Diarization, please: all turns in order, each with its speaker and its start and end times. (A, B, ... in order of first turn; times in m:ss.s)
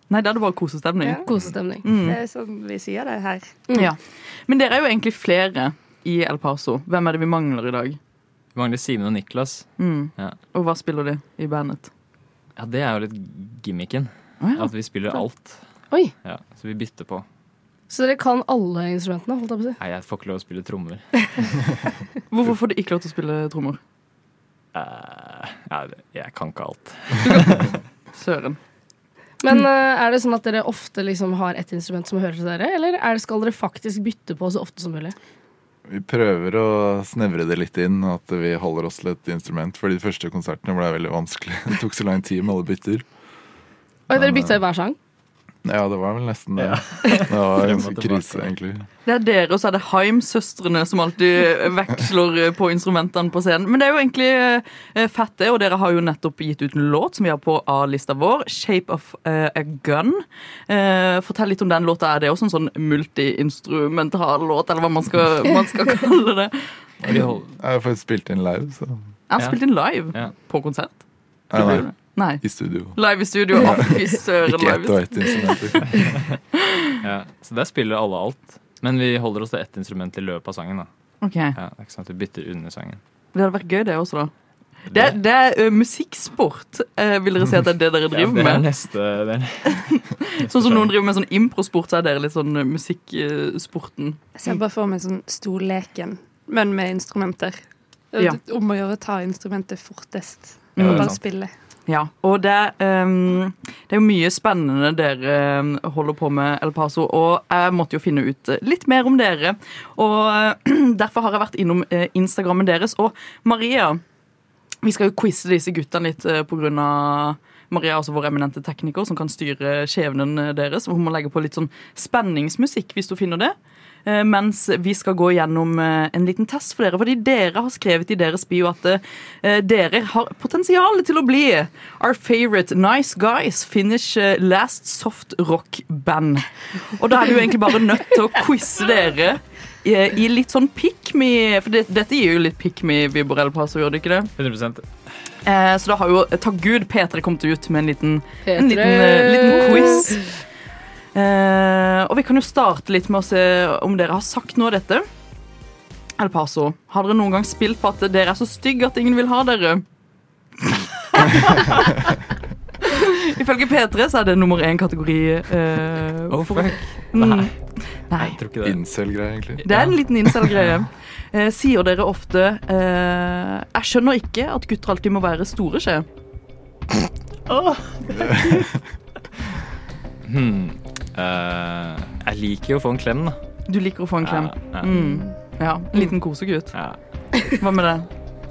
0:00.1-0:01.2 A
0:01.0-0:01.8 B
0:01.8-0:02.2 A
0:02.0-0:03.6 C
0:03.7-0:08.0 A
0:08.5-0:10.4 D
0:09.8-0:11.9 A
0:12.6-0:15.6 D
0:14.4-0:14.7 A
0:16.2-0:17.2 D
0:17.9-0:19.8 B
0:19.8-0:21.0 D
0:22.3-0:23.8 A
0:24.7-0:27.8 D
0:27.2-0:28.6 A
0:29.4-0:35.2 B
0:35.9-0:43.0 E
0:44.1-0:45.0 B
0:45.6-0:48.9 E
0:46.6-0:48.5 D
0:49.0-1:06.7 A
1:07.0-1:09.1 E
1:07.1-1:07.5 D
1:09.3-1:10.9 A
1:11.5-1:12.4 A
1:11.5-1:11.9 D
1:11.5-1:16.2 E
1:12.9-1:15.5 A
1:17.0-1:20.9 D
1:21.2-1:21.6 A
1:21.5-1:23.0 D
1:23.3-1:24.3 A
1:24.9-1:25.1 D
1:24.9-1:28.7 A
1:28.1-1:30.9 D
1:29.7-1:34.2 A
1:34.3-1:37.6 C
1:38.1-1:41.5 C
1:40.8-1:41.2 A
1:40.8-1:41.2 D
1:41.9-1:54.0 A
1:54.8-2:03.5 A
2:04.0-2:24.3 A
2:24.4-2:24.8 D
2:25.4-2:30.3 A
2:28.4-2:30.2 B
2:31.1-2:35.0 A
2:36.2-2:39.8 A
2:40.6-2:41.9 A
2:42.8-2:48.4 A
2:46.3-2:47.5 D
2:48.2-2:48.8 D
2:48.6-2:49.6 E
2:49.6-2:50.8 D
2:49.6-2:56.0 A
2:57.5-2:58.7 D
2:58.1-2:58.8 E
3:00.2-3:03.4 D
3:03.7-3:06.7 A
3:04.2-3:05.0 D
3:04.9-3:05.3 C
3:06.7-3:07.0 D
3:07.5-3:08.1 A